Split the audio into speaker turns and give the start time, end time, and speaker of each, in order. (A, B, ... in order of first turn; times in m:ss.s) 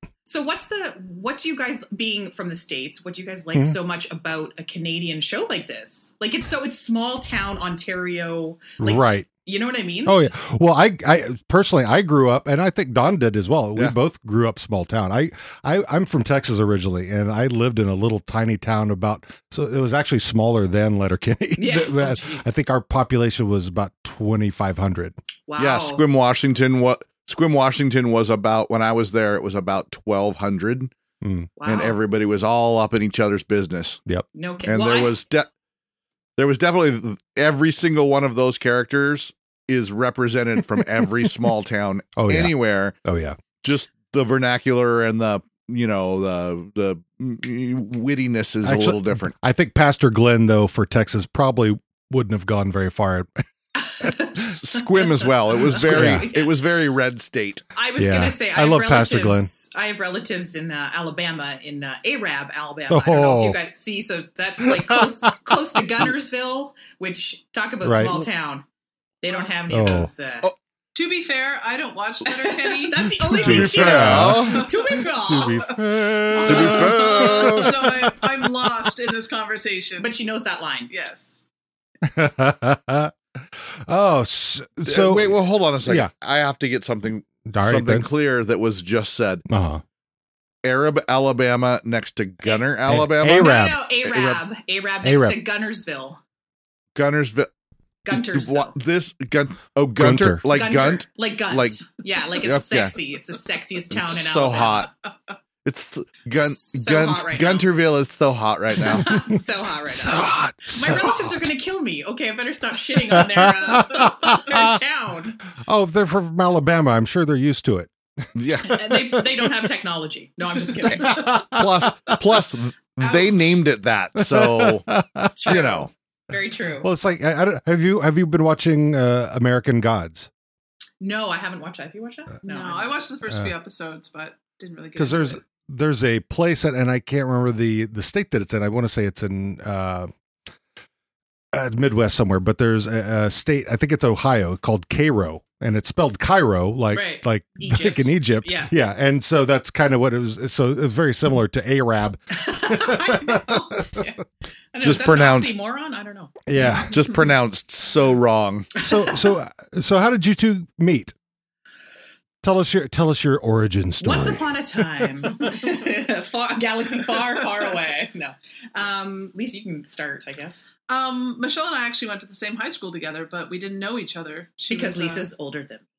0:00.3-0:10.3 A
0:08.8-0:09.3 B
0:10.1-0:25.2 B
0:21.6-0:22.5 A
0:25.5-0:26.0 A
0:25.6-0:30.9 C
0:31.2-0:31.5 B
0:31.6-0:32.0 A
0:31.6-0:34.0 C
0:34.4-0:35.2 A
0:34.6-0:35.5 C
0:36.4-0:43.0 C
0:42.2-0:43.4 B
0:43.6-0:49.4 C
0:48.6-0:53.4 B
0:53.8-0:56.6 A
0:54.4-0:57.6 C
0:55.9-0:56.3 B
0:57.8-1:08.6 A
0:58.0-0:59.5 B
1:02.9-1:03.6 B
1:04.6-1:05.0 B
1:07.8-1:08.1 B
1:09.2-1:10.5 A
1:09.7-1:10.1 B
1:11.0-1:13.7 D
1:12.3-1:15.8 A
1:13.4-1:14.7 C
1:13.4-1:14.6 B
1:14.5-1:20.1 D
1:15.2-1:18.3 B
1:16.3-1:17.6 A
1:16.4-1:17.9 C
1:20.0-1:20.9 A
1:20.9-1:21.4 D
1:22.0-1:23.1 B
1:23.9-1:26.1 B
1:24.9-1:29.4 C
1:27.5-1:28.1 B
1:29.5-1:29.8 B
1:30.6-1:33.6 C
1:32.9-1:34.3 B
1:33.3-1:36.2 A
1:35.0-1:35.4 B
1:37.0-1:37.5 C
1:38.0-1:38.7 A
1:38.1-1:41.8 C
1:40.0-1:40.4 B
1:40.5-1:44.9 A
1:42.4-1:43.0 C
1:43.9-1:44.9 C
1:45.6-1:49.1 C
1:46.3-1:47.7 A
1:48.8-1:55.4 A
1:49.9-1:51.4 B
1:53.1-1:54.8 B
1:55.7-1:59.0 B
1:58.4-1:58.8 C
1:58.6-2:01.4 A
2:00.9-2:04.9 C
2:01.0-2:02.2 B
2:03.0-2:03.5 D
2:04.2-2:05.4 B
2:05.4-2:06.9 A
2:05.4-2:05.9 C
2:06.8-2:10.3 B
2:11.0-2:13.1 A
2:12.4-2:15.4 D
2:15.0-2:20.1 B
2:21.5-2:34.0 B
2:26.9-2:28.7 A
2:32.3-2:34.2 A
2:34.7-2:36.8 A
2:34.8-2:35.6 C
2:36.5-2:37.0 B
2:36.9-2:38.7 C
2:38.8-2:39.2 A
2:38.8-2:41.2 B
2:42.4-2:45.1 B
2:44.0-2:50.7 A
2:50.9-2:55.3 D
2:54.7-2:55.8 A